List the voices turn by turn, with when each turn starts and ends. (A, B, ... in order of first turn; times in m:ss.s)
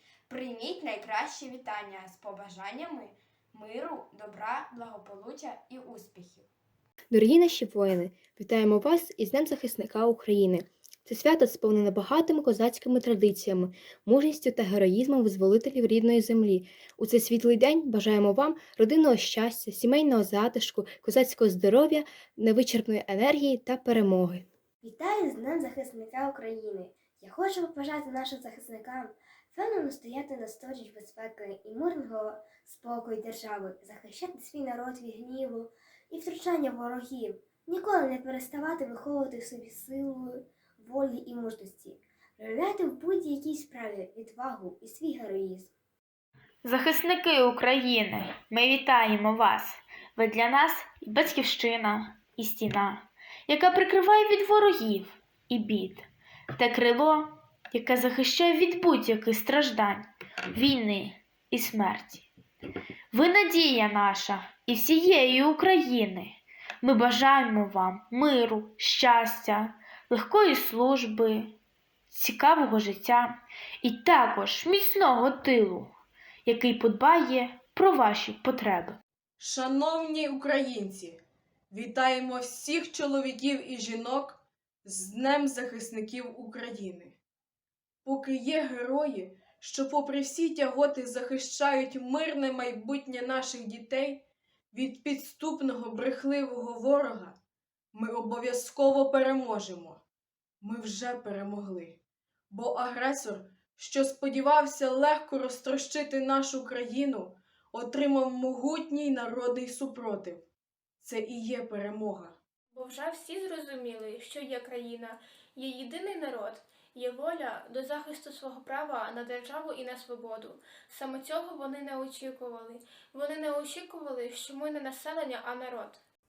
0:00.3-0:06.5 A
0:07.1-0:24.4 B
0:24.8-0:45.7 C
0:46.6-1:02.2 D
1:03.1-1:11.5 D
1:12.1-1:15.9 D
1:16.4-1:19.0 D
1:19.4-1:21.2 E
1:21.7-1:27.2 E
1:28.0-1:37.4 E
1:37.9-1:40.0 E
1:40.6-1:42.0 E
1:42.5-1:50.4 E
1:51.0-1:52.4 E
1:52.7-2:06.0 F